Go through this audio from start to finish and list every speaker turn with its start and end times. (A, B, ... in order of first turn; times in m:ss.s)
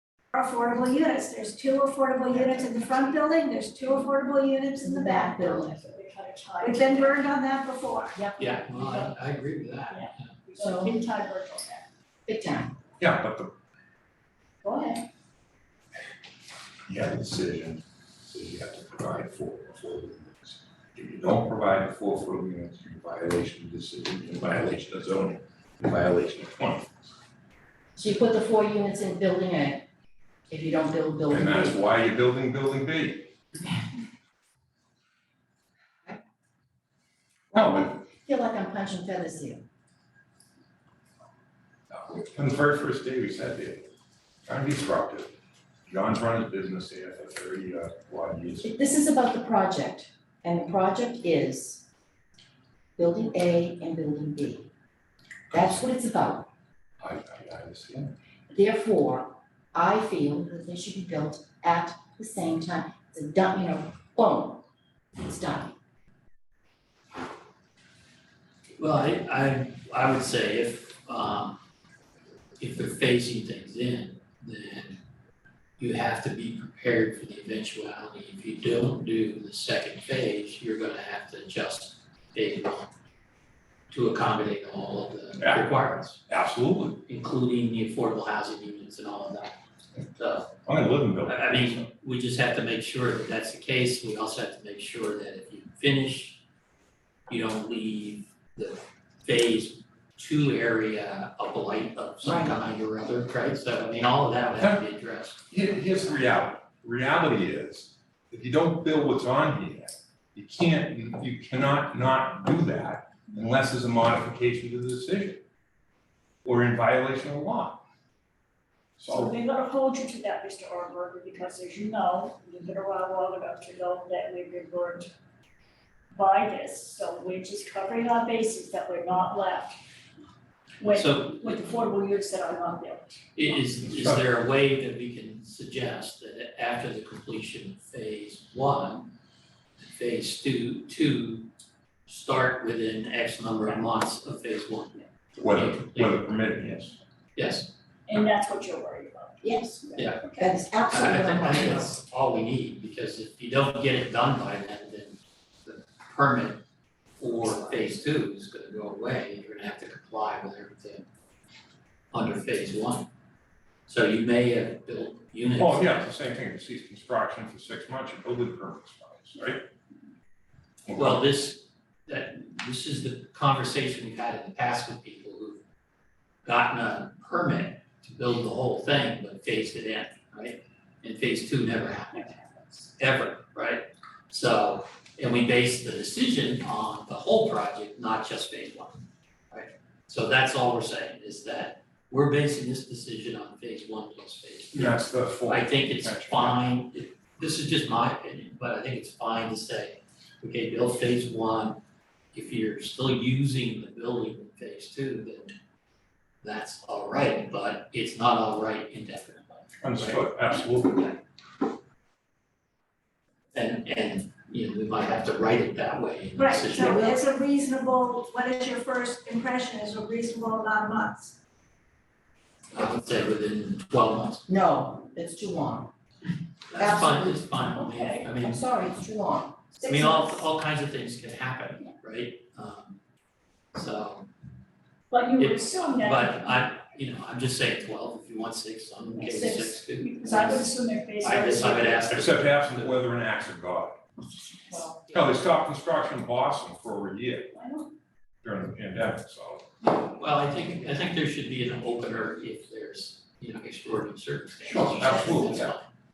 0:00.3-0:05.4 A
0:02.3-0:03.2 B
0:04.8-0:05.9 C
0:05.4-0:07.2 B
0:06.6-0:08.2 A
0:08.1-0:08.5 C
0:08.4-0:10.3 D
0:08.7-0:09.1 B
0:09.9-0:11.8 B
0:10.6-0:11.0 C
0:12.2-0:12.7 C
0:13.0-0:13.5 E
0:14.6-0:15.0 C
0:16.9-0:26.9 E
0:28.0-0:29.8 C
0:30.5-0:31.8 C
0:31.3-0:33.3 E
0:37.5-0:39.6 C
0:37.5-0:37.9 E
0:41.9-0:43.9 E
0:44.5-0:45.3 E
0:45.9-0:48.7 E
0:48.6-0:51.8 C
0:53.0-0:54.7 C
0:55.5-0:56.5 C
0:55.5-0:55.8 E
0:57.0-0:58.1 E
0:58.5-1:04.6 C
1:05.2-1:05.7 C
1:08.8-1:11.6 D
1:12.6-1:15.0 D
1:15.8-1:22.9 D
1:23.9-1:26.2 D
1:25.4-1:25.7 E
1:26.3-1:27.0 E
1:27.0-1:29.5 D
1:30.2-1:30.5 D
1:30.6-1:31.9 E
1:31.2-1:36.4 D
1:37.3-1:45.4 D
1:42.2-1:42.6 C
1:45.5-1:55.4 E
1:56.4-1:57.8 E
1:59.0-1:59.3 E
1:59.1-2:05.1 B
2:06.1-2:09.8 B
2:10.8-2:13.2 B
2:10.9-2:11.5 D
2:13.4-2:19.1 D
2:13.8-2:14.3 E
2:19.8-2:21.5 D
2:22.0-2:26.3 D
2:25.4-2:26.9 E
2:27.4-2:27.7 D
2:28.1-2:30.7 B
2:29.4-2:29.8 C
2:30.0-2:30.2 D
2:30.4-2:32.0 C
2:30.9-2:36.6 D
2:37.2-2:41.0 D
2:42.1-2:43.1 D
2:43.9-2:46.1 D
2:45.6-2:49.6 E
2:50.9-2:51.2 E
2:51.0-2:55.6 D
2:56.4-3:02.2 D
3:02.1-3:02.9 B
3:03.0-3:21.8 D
3:14.7-3:16.6 E
3:22.3-3:25.5 D
3:26.4-3:30.2 D
3:29.8-3:31.1 E
3:33.5-3:37.1 D
3:36.4-3:41.3 A
3:36.7-3:37.2 C
3:42.7-3:44.4 D
3:44.5-3:45.9 C
3:46.7-3:48.6 D
3:46.7-3:50.5 C
3:49.8-3:53.0 D
3:53.7-3:54.3 D
3:55.1-3:56.7 B
3:55.4-4:00.7 D
3:59.1-4:02.2 B
3:59.2-3:59.8 C
4:01.2-4:02.9 D
4:02.1-4:03.9 E
4:04.6-4:05.1 C
4:05.1-4:07.5 E
4:07.5-4:07.9 B
4:08.4-4:09.6 E
4:09.8-4:15.9 D
4:14.6-4:15.8 E